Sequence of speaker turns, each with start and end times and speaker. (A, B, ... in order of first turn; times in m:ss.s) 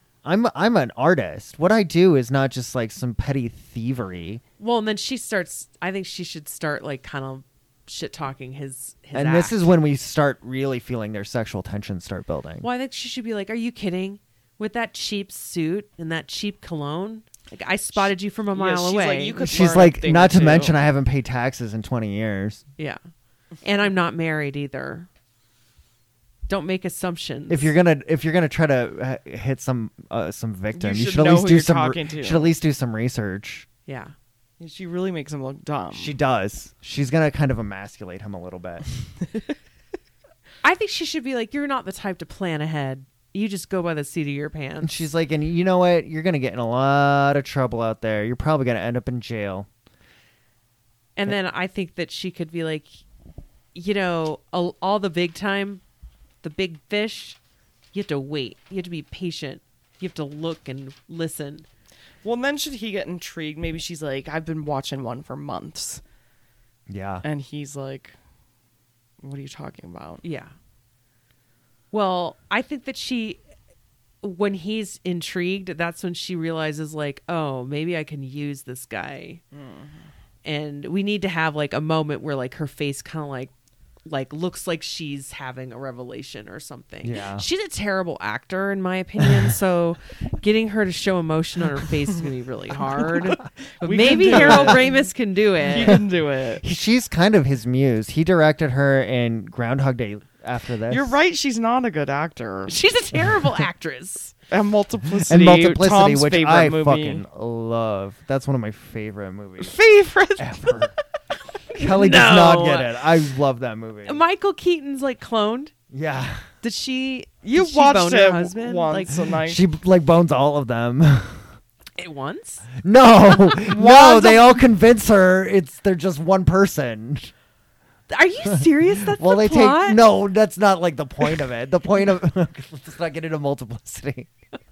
0:00.2-0:04.4 A
0:04.6-0:09.7 B
0:09.1-0:12.6 A
0:12.6-0:19.5 B
0:18.0-0:20.8 C
0:19.4-0:22.6 A
0:23.6-0:25.1 B
0:26.5-0:27.7 B
0:27.5-0:33.6 A
0:30.7-0:32.5 C
0:33.9-0:34.1 B
0:34.6-0:36.1 C
0:35.9-0:38.8 A
0:40.6-0:45.0 B
0:44.8-0:49.7 A
0:51.2-0:53.0 B
0:53.7-0:55.8 B
0:56.4-0:57.4 B
0:57.9-1:01.6 B
1:02.2-1:06.0 C
1:06.9-1:07.2 A
1:07.2-1:08.1 C
1:09.2-1:10.2 C
1:10.2-1:10.5 B
1:11.9-1:13.4 B
1:14.2-1:19.4 B
1:19.5-1:20.0 C
1:20.4-1:23.5 B
1:24.0-1:36.0 B
1:27.0-1:27.4 A
1:29.2-1:29.5 A
1:33.0-1:35.0 C
1:34.0-1:34.8 A
1:35.7-1:36.6 C
1:35.8-1:36.0 A
1:36.6-1:41.2 A
1:40.9-1:42.8 C
1:42.7-1:44.3 B
1:44.5-1:47.2 C
1:45.1-1:49.8 A
1:49.6-1:50.9 C
1:50.4-1:50.9 A
1:51.7-1:52.9 B
1:51.7-1:54.2 A
1:54.0-1:55.7 B
1:55.9-1:56.5 A
1:56.6-1:59.2 B
1:57.4-1:59.6 C
1:59.3-2:01.4 A
2:02.0-2:02.7 B
2:02.8-2:07.3 A
2:03.7-2:04.6 C
2:08.1-2:10.0 B
2:08.5-2:14.3 A